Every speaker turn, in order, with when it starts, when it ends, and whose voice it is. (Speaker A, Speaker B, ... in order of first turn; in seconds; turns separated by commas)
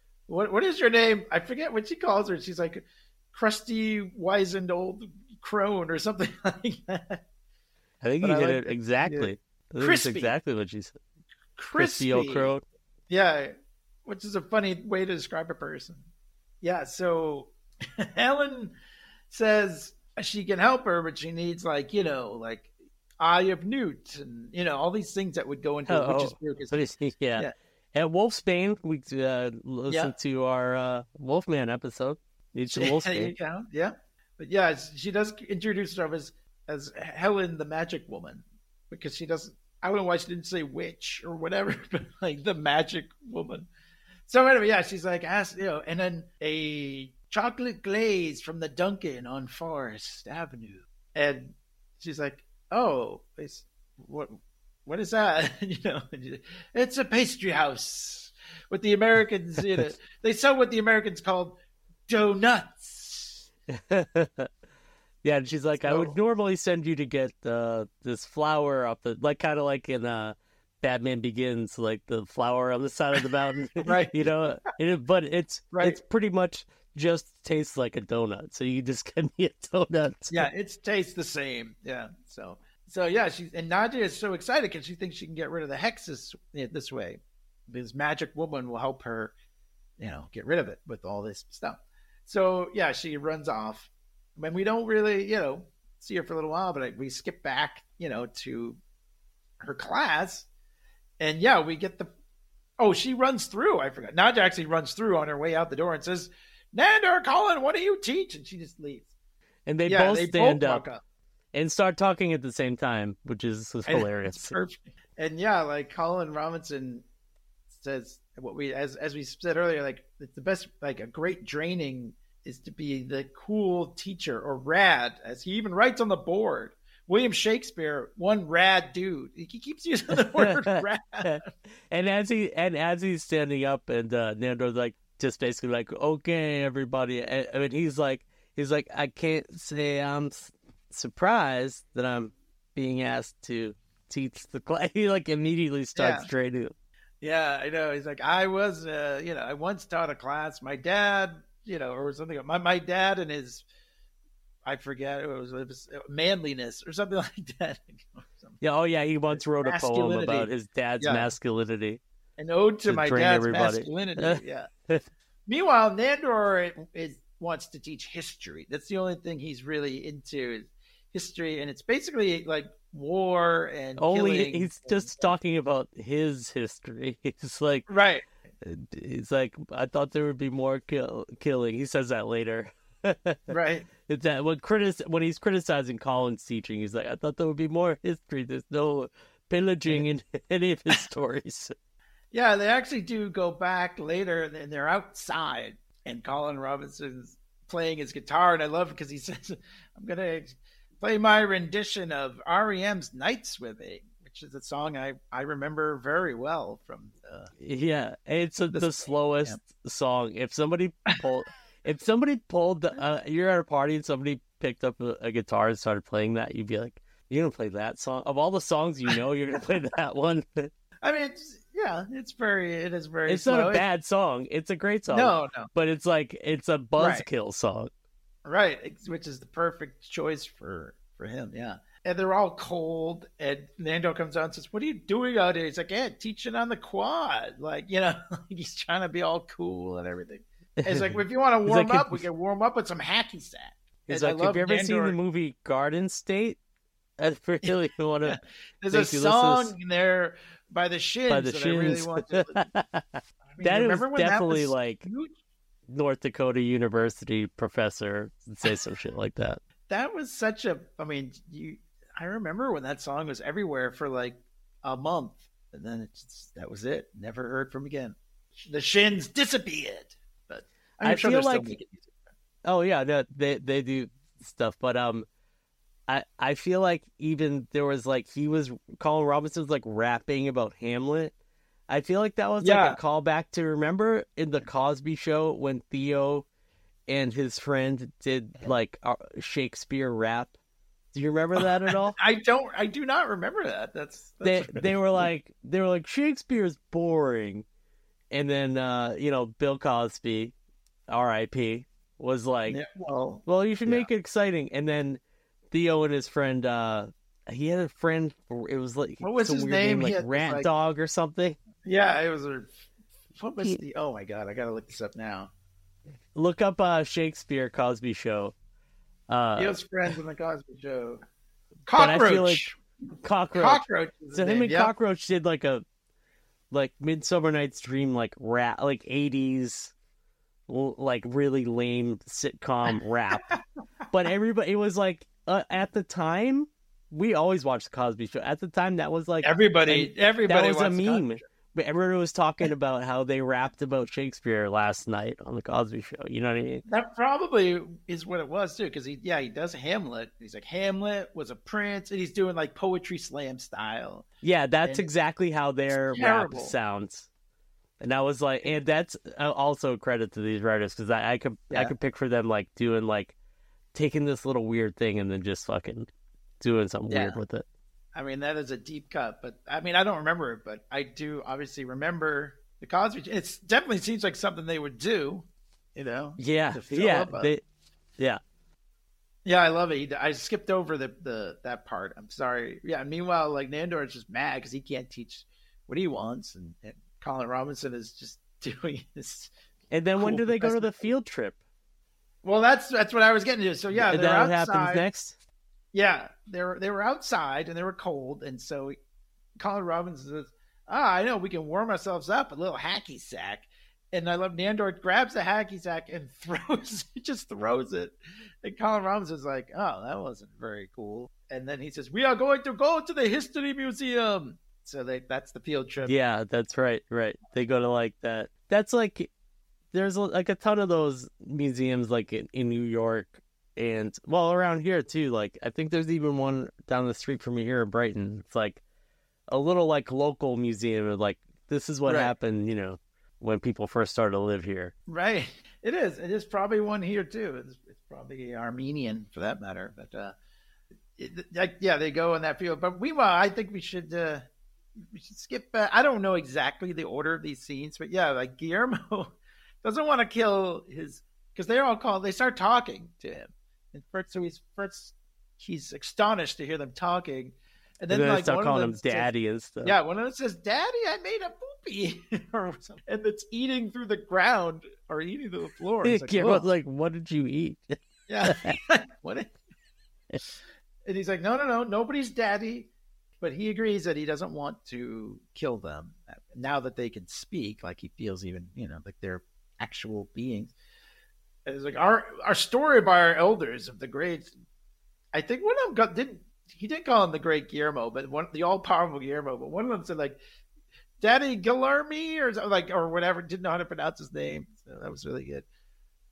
Speaker A: 0.3-7.2, Speaker B: 8.0-10.9, Speaker A: 8.2-10.3, Speaker A: 11.6-12.5, Speaker B: 11.8-12.6, Speaker A: 13.1-13.5, Speaker A: 14.0-16.1, Speaker A: 16.6-18.7, Speaker A: 19.3-26.8, Speaker B: 25.9-33.4, Speaker A: 29.9-30.1, Speaker A: 32.7-43.7, Speaker A: 44.3-63.4, Speaker B: 63.7-64.5, Speaker B: 65.2-80.5, Speaker A: 65.8-66.2, Speaker A: 73.8-74.5, Speaker A: 75.7-76.0, Speaker A: 80.3-89.3, Speaker A: 90.0-98.8, Speaker A: 99.6-100.5, Speaker A: 101.2-102.1, Speaker A: 102.8-109.1, Speaker B: 109.7-110.8, Speaker A: 109.8-111.0, Speaker B: 111.5-114.5, Speaker A: 113.9-117.0, Speaker A: 117.7-131.5, Speaker B: 130.3-146.7, Speaker A: 145.9-146.3, Speaker A: 147.2-153.7, Speaker A: 154.6-158.6, Speaker B: 158.6-162.0, Speaker A: 159.3-161.3, Speaker A: 162.4-164.7, Speaker B: 162.8-165.0, Speaker A: 165.5-175.3, Speaker B: 174.0-177.8, Speaker A: 177.9-178.2, Speaker B: 178.6-183.4, Speaker A: 183.5-183.9, Speaker B: 184.1-191.7, Speaker A: 192.3-207.5, Speaker B: 207.6-220.7, Speaker A: 208.7-209.6, Speaker A: 221.0-223.8, Speaker B: 223.3-227.9, Speaker A: 225.1-225.7, Speaker A: 227.0-227.2, Speaker A: 228.4-245.2, Speaker B: 240.8-241.2, Speaker B: 241.7-242.2, Speaker B: 244.1-246.6, Speaker B: 247.2-248.4, Speaker A: 248.2-252.7, Speaker B: 248.9-249.7, Speaker B: 251.3-255.1, Speaker A: 253.5-255.3, Speaker B: 255.9-259.6, Speaker A: 259.9-272.2, Speaker B: 271.0-271.7, Speaker B: 272.6-275.3, Speaker B: 276.1-281.3, Speaker B: 281.9-286.4, Speaker A: 282.6-283.0, Speaker B: 287.1-290.5, Speaker B: 291.1-292.1, Speaker A: 291.6-295.2, Speaker B: 294.4-297.6, Speaker B: 298.3-300.5, Speaker B: 301.1-302.8, Speaker A: 302.7-304.1, Speaker B: 303.4-305.2, Speaker B: 305.7-311.6, Speaker A: 309.2-310.7, Speaker A: 311.8-312.7, Speaker A: 313.3-315.5, Speaker B: 316.3-318.5, Speaker B: 319.3-319.8, Speaker A: 319.6-321.2, Speaker A: 321.9-322.8, Speaker B: 321.9-322.6, Speaker B: 323.2-325.8, Speaker A: 323.5-324.9, Speaker B: 326.7-329.9, Speaker B: 330.7-333.6, Speaker B: 334.1-346.8, Speaker A: 339.4-341.4, Speaker A: 346.9-354.3, Speaker B: 354.4-357.3, Speaker A: 355.9-356.7, Speaker B: 358.0-363.3, Speaker B: 363.9-366.1, Speaker B: 366.6-367.6, Speaker A: 367.1-367.4, Speaker A: 368.1-377.5, Speaker B: 376.4-377.6, Speaker A: 379.4-389.5, Speaker B: 389.9-391.6, Speaker A: 390.1-391.1, Speaker A: 392.4-395.1, Speaker B: 393.9-395.4, Speaker A: 395.9-398.9, Speaker A: 399.6-416.1, Speaker B: 416.0-419.3, Speaker B: 419.9-428.8, Speaker B: 429.5-434.9, Speaker A: 432.0-432.3, Speaker A: 435.1-440.3, Speaker A: 441.2-459.3, Speaker B: 458.1-459.9, Speaker A: 459.8-466.7, Speaker B: 466.0-468.8, Speaker A: 468.3-469.5, Speaker A: 471.0-472.9, Speaker A: 473.4-480.7, Speaker A: 481.6-484.5, Speaker A: 485.3-490.4, Speaker A: 491.2-495.6